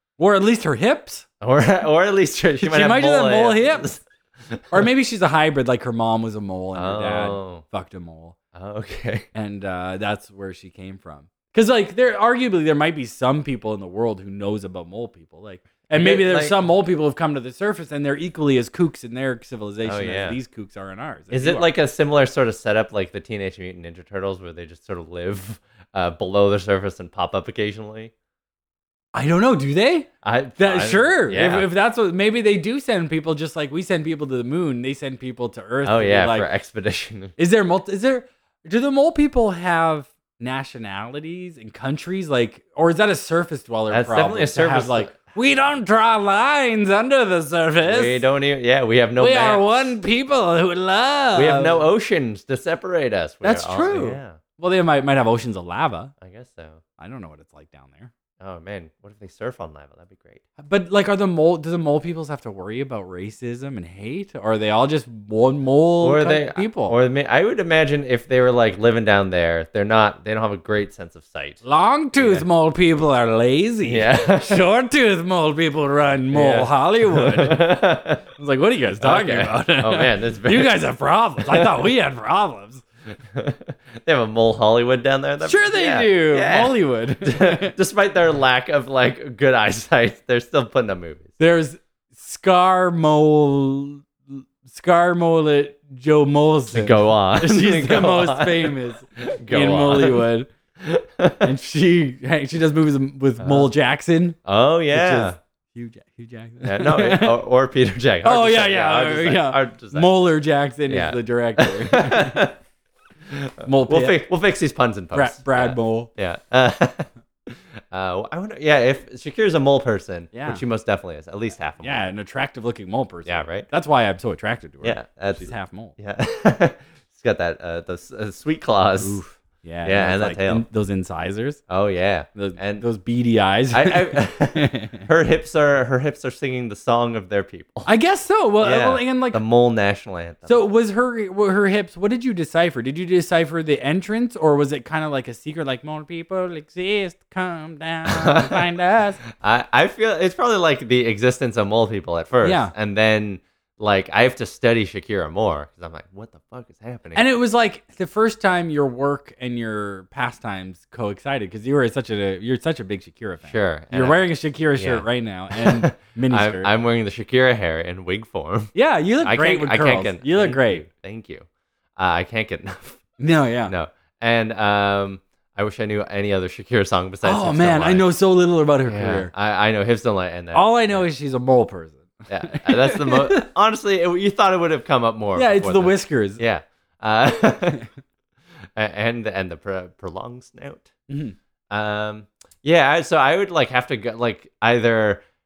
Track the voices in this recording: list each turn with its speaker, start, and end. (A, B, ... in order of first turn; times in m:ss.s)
0:00.2-0:01.3 A
0:01.4-0:04.9 B
0:02.6-0:03.9 A
0:04.7-0:08.4 A
0:06.8-0:07.6 B
0:08.5-0:09.3 B
0:09.3-0:21.7 A
0:15.9-0:16.6 B
0:19.8-0:20.4 B
0:21.3-0:28.1 B
0:29.1-0:36.5 A
0:30.2-0:31.7 B
0:35.8-0:37.4 B
0:37.4-0:48.2 A
0:43.9-0:45.2 B
0:47.8-0:50.0 B
0:49.2-0:51.9 A
0:51.4-0:54.4 B
0:53.4-0:56.1 A
0:56.2-0:56.8 B
0:57.0-0:58.1 A
0:58.4-1:00.4 B
1:00.6-1:07.0 A
1:06.0-1:11.6 B
1:11.6-1:17.8 A
1:12.2-1:12.5 B
1:13.9-1:14.6 B
1:16.3-1:18.2 B
1:18.4-1:22.8 A
1:19.0-1:20.8 B
1:21.5-1:21.9 B
1:23.3-1:31.3 B
1:25.4-1:27.8 A
1:31.4-1:40.5 A
1:36.7-1:40.3 B
1:40.8-1:41.5 B
1:41.4-1:44.4 A
1:43.4-1:43.7 B
1:44.5-1:45.4 B
1:44.9-1:47.4 A
1:46.6-1:50.1 B
1:48.2-1:52.5 A
1:50.9-1:52.6 B
1:53.3-2:02.1 B
1:53.6-1:54.2 A
1:55.1-1:56.1 A
2:00.3-2:00.6 A
2:01.8-2:05.9 A
2:03.3-2:03.7 B
2:04.8-2:09.2 B
2:09.0-2:11.6 A
2:09.8-2:10.6 B
2:11.7-2:12.8 B
2:12.4-2:15.1 A
2:13.7-2:17.9 B
2:17.9-2:19.4 A
2:18.6-2:20.6 B
2:20.5-2:29.2 A
2:28.1-2:28.6 B
2:29.3-2:37.2 B
2:32.4-2:32.7 A
2:37.2-2:46.7 A
2:43.5-2:44.2 B
2:44.8-2:53.0 B
2:48.8-2:50.8 A
2:53.2-2:53.7 A
2:53.7-2:58.0 B
2:57.2-2:59.3 A
2:58.9-3:01.0 B
3:00.5-3:03.5 A
3:02.3-3:07.8 B
3:05.4-3:06.4 A
3:08.8-3:10.9 B
3:11.1-3:11.4 A
3:11.7-3:15.2 B